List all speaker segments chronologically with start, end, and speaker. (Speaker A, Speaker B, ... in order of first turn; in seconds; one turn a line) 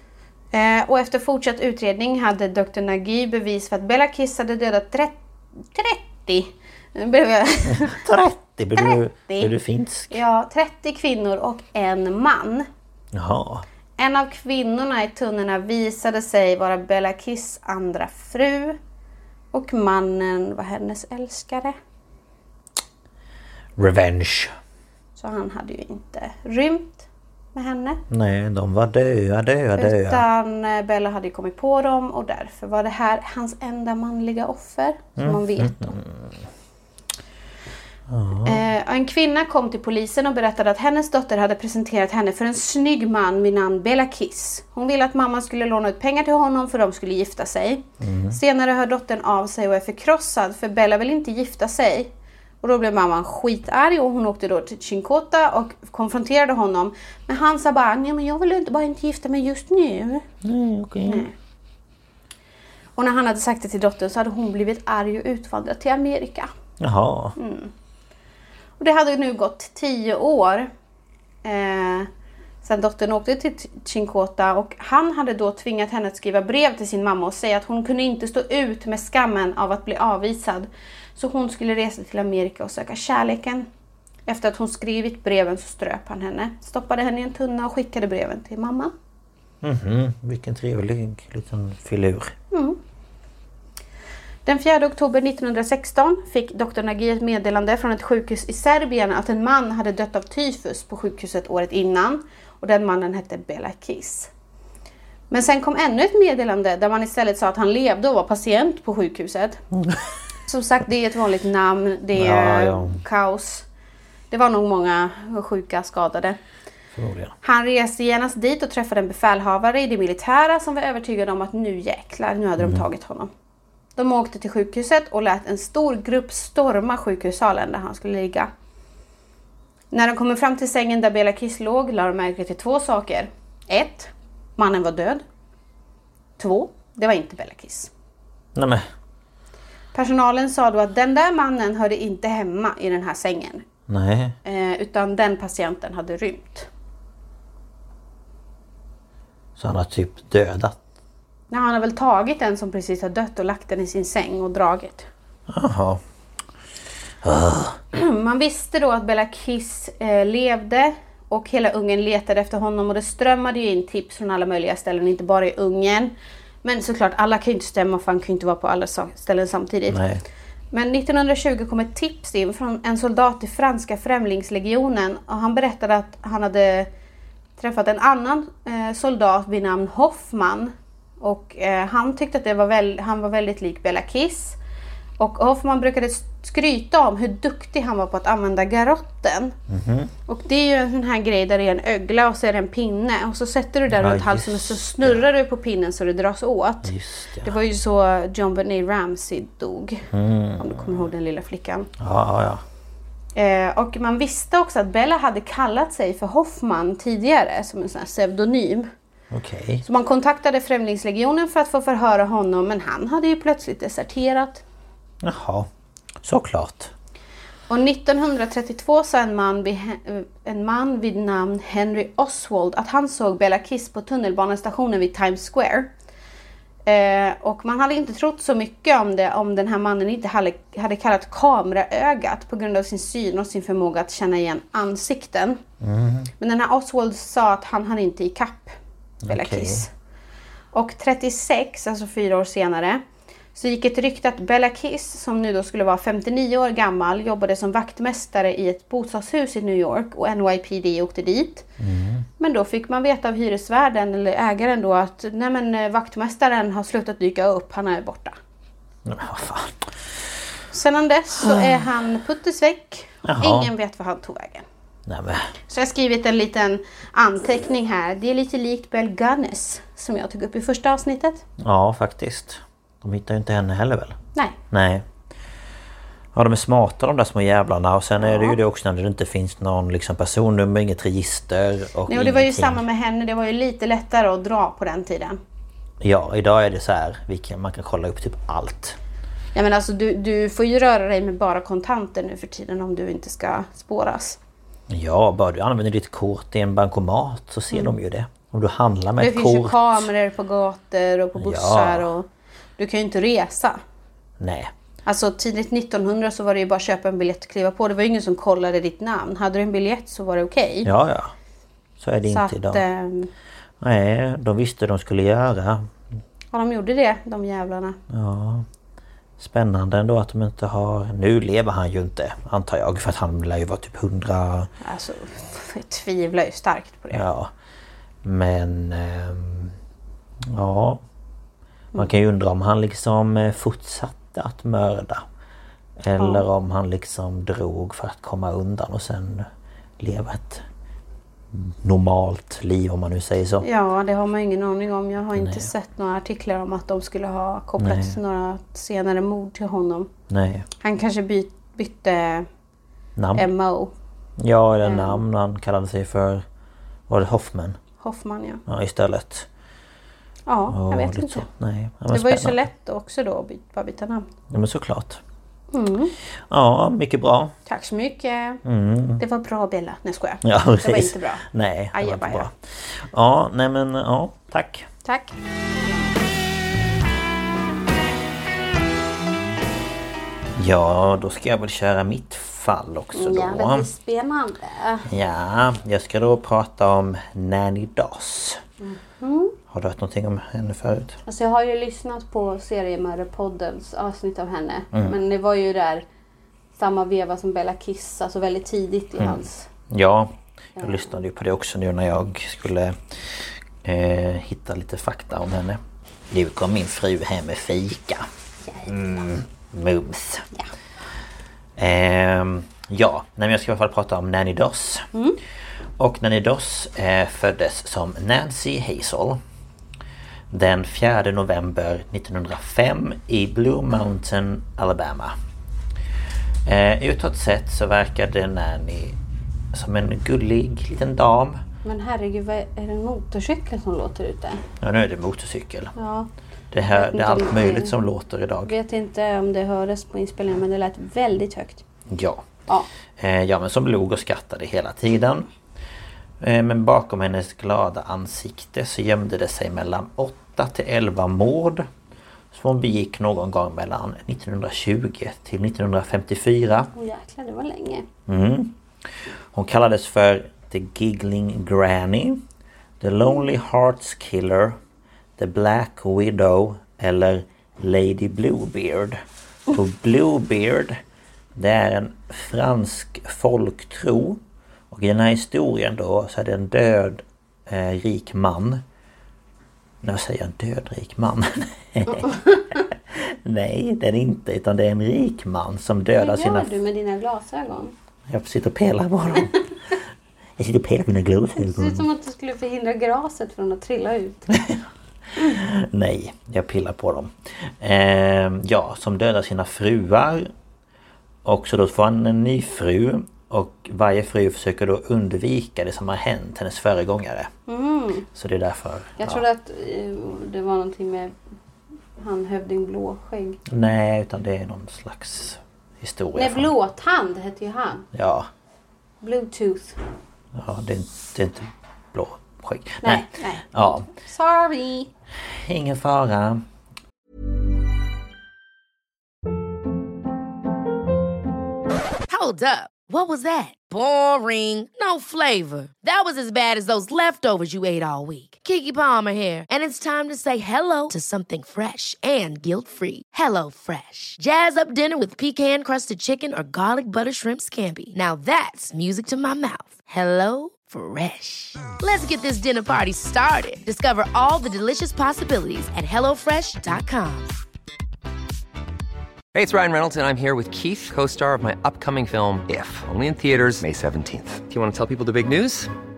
Speaker A: 0.5-8.0
Speaker B: 7.7-10.2
Speaker A: 8.8-9.6
Speaker A: 10.1-12.7
Speaker B: 13.1-13.7
Speaker A: 14.0-18.8
Speaker A: 19.5-21.8
Speaker B: 23.8-24.5
Speaker A: 25.2-28.0
Speaker B: 28.1-30.2
Speaker A: 29.8-36.0
Speaker B: 35.2-36.5
Speaker B: 38.1-38.6
Speaker A: 38.4-52.1
Speaker B: 48.0-48.4
Speaker A: 52.6-60.2
Speaker B: 60.4-61.3
Speaker A: 61.1-61.3
Speaker A: 63.0-66.5
Speaker B: 66.8-67.4
Speaker A: 67.4-67.7
Speaker A: 68.8-70.7
Speaker A: 71.4-72.1
Speaker A: 72.6-83.7
Speaker A: 84.3-88.9
Speaker B: 89.6-92.3
Speaker A: 92.5-92.8
Speaker A: 94.5-104.3
Speaker A: 105.3-109.6
Speaker A: 110.5-113.7
Speaker B: 112.2-113.0
Speaker A: 114.3-116.4
Speaker B: 117.0-117.3
Speaker A: 117.4-123.3
Speaker A: 124.0-128.5
Speaker A: 129.9-135.2
Speaker A: 136.4-137.9
Speaker B: 138.6-138.9
Speaker A: 139.9-143.6
Speaker B: 143.9-144.4
Speaker A: 144.4-146.7
Speaker B: 149.6-150.8
Speaker A: 151.5-155.1
Speaker B: 155.5-156.0
Speaker B: 157.2-157.8
Speaker A: 157.9-166.1
Speaker A: 166.6-170.0
Speaker B: 169.9-170.2
Speaker A: 170.7-176.9
Speaker A: 177.6-184.6
Speaker A: 185.2-189.6
Speaker B: 189.7-190.1
Speaker A: 190.3-201.9
Speaker B: 193.9-195.2
Speaker B: 196.8-197.5
Speaker B: 200.1-201.1
Speaker B: 202.0-202.6
Speaker A: 203.4-208.9
Speaker B: 209.3-209.8
Speaker A: 209.8-214.6
Speaker B: 215.2-215.7
Speaker B: 216.2-216.9
Speaker A: 217.7-225.9
Speaker A: 226.8-235.6
Speaker B: 235.8-236.3
Speaker A: 236.4-238.8
Speaker B: 239.2-239.9
Speaker A: 239.3-239.9
Speaker A: 240.7-243.0
Speaker A: 243.6-251.7
Speaker B: 251.8-252.2
Speaker A: 252.4-258.4
Speaker B: 259.1-260.0
Speaker A: 260.7-264.7
Speaker B: 261.4-261.8
Speaker B: 263.2-263.7
Speaker B: 265.1-265.5
Speaker A: 265.7-271.4
Speaker B: 271.6-274.2
Speaker B: 274.7-275.1
Speaker B: 276.3-282.8
Speaker A: 278.2-278.6
Speaker A: 282.1-285.4
Speaker B: 286.0-289.0
Speaker A: 289.6-294.4
Speaker B: 294.9-300.1
Speaker A: 299.2-302.3
Speaker B: 301.4-302.1
Speaker A: 302.8-303.8
Speaker B: 304.4-304.7
Speaker A: 305.1-310.9
Speaker B: 310.8-311.4
Speaker B: 312.0-312.8
Speaker A: 312.3-313.3
Speaker B: 313.8-315.9
Speaker A: 316.5-318.0
Speaker B: 318.1-318.7
Speaker B: 319.4-324.7
Speaker A: 324.8-327.2
Speaker B: 327.1-327.5
Speaker B: 328.2-329.8
Speaker B: 330.5-331.0
Speaker B: 331.9-335.2
Speaker B: 336.0-340.6
Speaker A: 336.2-336.5
Speaker B: 341.5-343.7
Speaker A: 343.6-350.1
Speaker B: 345.4-345.7
Speaker B: 347.8-348.2
Speaker B: 350.3-350.7
Speaker A: 350.8-352.5
Speaker B: 353.2-353.5
Speaker A: 353.4-353.9
Speaker B: 354.4-356.4
Speaker A: 354.8-355.2
Speaker B: 357.1-357.8
Speaker A: 358.0-358.6
Speaker B: 358.7-359.5
Speaker A: 360.5-361.5
Speaker B: 360.7-362.7
Speaker A: 362.1-364.3
Speaker B: 364.5-365.2
Speaker A: 365.7-366.1
Speaker B: 366.5-367.6
Speaker A: 367.7-368.6
Speaker B: 368.6-369.2
Speaker A: 369.2-372.5
Speaker B: 370.4-374.9
Speaker A: 375.1-375.4
Speaker B: 380.6-383.9
Speaker A: 383.1-385.1
Speaker B: 385.1-388.6
Speaker A: 388.8-389.6
Speaker B: 389.7-391.2
Speaker A: 391.3-396.1
Speaker A: 396.8-399.7
Speaker B: 399.2-405.8
Speaker A: 400.8-401.1
Speaker B: 406.3-408.3
Speaker B: 408.8-410.5
Speaker B: 411.8-415.1
Speaker B: 416.0-419.4
Speaker B: 420.5-425.4
Speaker B: 426.6-429.2
Speaker B: 429.7-431.6
Speaker A: 431.8-434.6
Speaker B: 434.8-435.9
Speaker A: 436.0-436.3
Speaker B: 436.7-438.7
Speaker A: 436.9-437.9
Speaker A: 438.6-441.8
Speaker B: 442.1-442.5
Speaker B: 443.2-445.5
Speaker B: 446.4-451.9
Speaker B: 452.5-456.9
Speaker A: 456.9-458.1
Speaker B: 458.3-458.8
Speaker B: 459.5-462.4
Speaker B: 463.0-464.8
Speaker B: 465.4-471.0
Speaker B: 471.6-478.8
Speaker B: 480.0-486.7
Speaker A: 486.1-487.9
Speaker B: 488.3-489.6
Speaker B: 490.6-492.1
Speaker A: 491.6-494.6
Speaker B: 494.5-494.8
Speaker B: 495.4-500.5
Speaker B: 501.4-507.5
Speaker A: 507.7-508.3
Speaker B: 508.3-509.4
Speaker A: 509.2-511.3
Speaker A: 512.2-513.6
Speaker B: 513.7-516.7
Speaker A: 516.4-518.1
Speaker B: 518.1-518.5
Speaker A: 519.2-520.0
Speaker B: 520.5-524.1
Speaker A: 523.0-525.1
Speaker B: 525.5-526.6
Speaker C: 532.3-557.6
Speaker D: 559.5-565.9